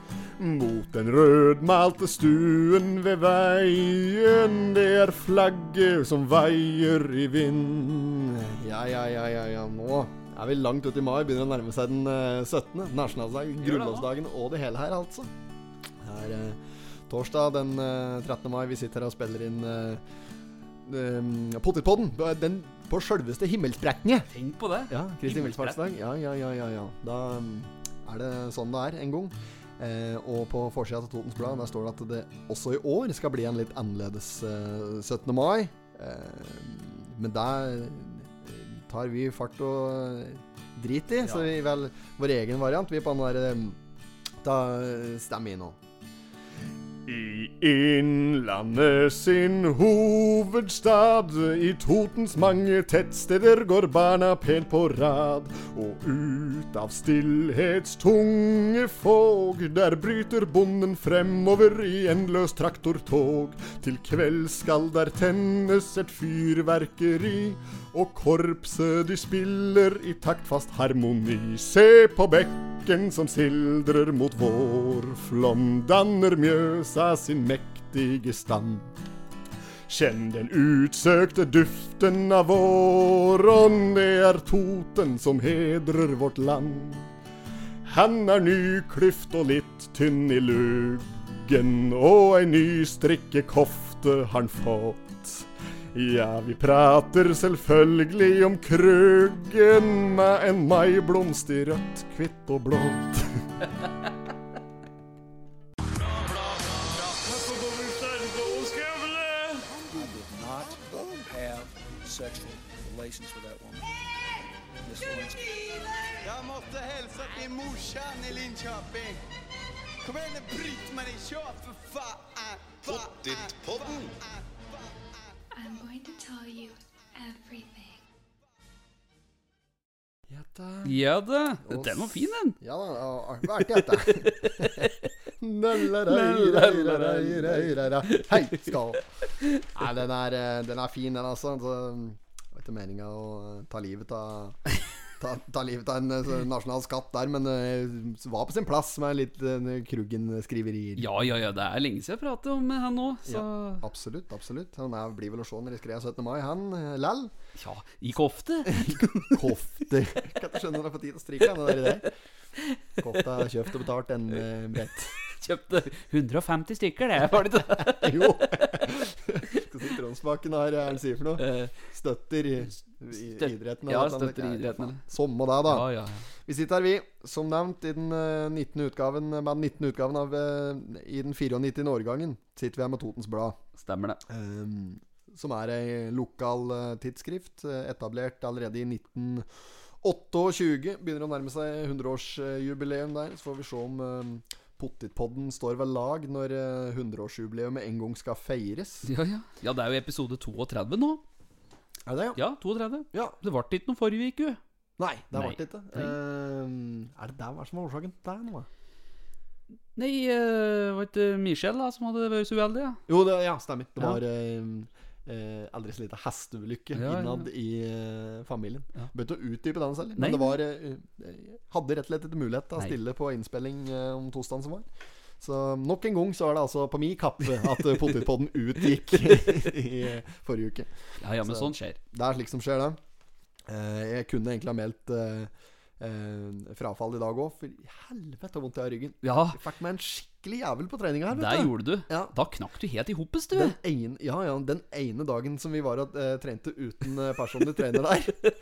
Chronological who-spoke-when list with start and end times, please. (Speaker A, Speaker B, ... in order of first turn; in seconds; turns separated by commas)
Speaker A: 0.4-15.3, Speaker B: 13.6-14.1, Speaker A: 16.0-20.0, Speaker A: 20.8-24.3, Speaker B: 24.3-25.9, Speaker A: 24.9-43.8, Speaker A: 44.4-45.8, Speaker A: 47.1-78.9, Speaker A: 79.9-87.0, Speaker A: 87.8-103.2, Speaker C: 106.0-107.4, Speaker C: 109.3-113.9, Speaker C: 114.8-115.8, Speaker D: 116.2-119.2, Speaker D: 120.0-124.7, Speaker E: 125.5-128.0, Speaker A: 130.3-131.0, Speaker B: 130.8-132.6, Speaker A: 131.6-139.0, Speaker B: 133.6-134.9, Speaker B: 135.9-138.7, Speaker B: 139.4-139.7, Speaker A: 139.7-144.6, Speaker A: 145.2-151.1, Speaker B: 151.0-153.8, Speaker A: 153.2-157.3, Speaker B: 157.6-159.5, Speaker A: 158.7-162.1, Speaker A: 163.0-165.1, Speaker B: 165.2-168.8, Speaker A: 167.7-175.9, Speaker B: 171.4-171.7, Speaker B: 173.3-175.0, Speaker B: 175.7-176.2, Speaker A: 176.4-183.6, Speaker B: 183.8-184.2, Speaker A: 184.3-189.5, Speaker A: 190.0-199.1, Speaker B: 199.0-201.2, Speaker A: 202.1-202.4, Speaker B: 202.3-204.6, Speaker A: 205.0-208.7, Speaker B: 205.3-206.1, Speaker B: 209.9-213.0, Speaker A: 213.1-224.9, Speaker B: 216.9-217.5, Speaker B: 220.2-220.6, Speaker A: 225.4-233.0, Speaker B: 231.2-232.0, Speaker A: 233.7-242.3, Speaker B: 239.2-239.6, Speaker B: 241.3-243.8, Speaker A: 243.5-248.4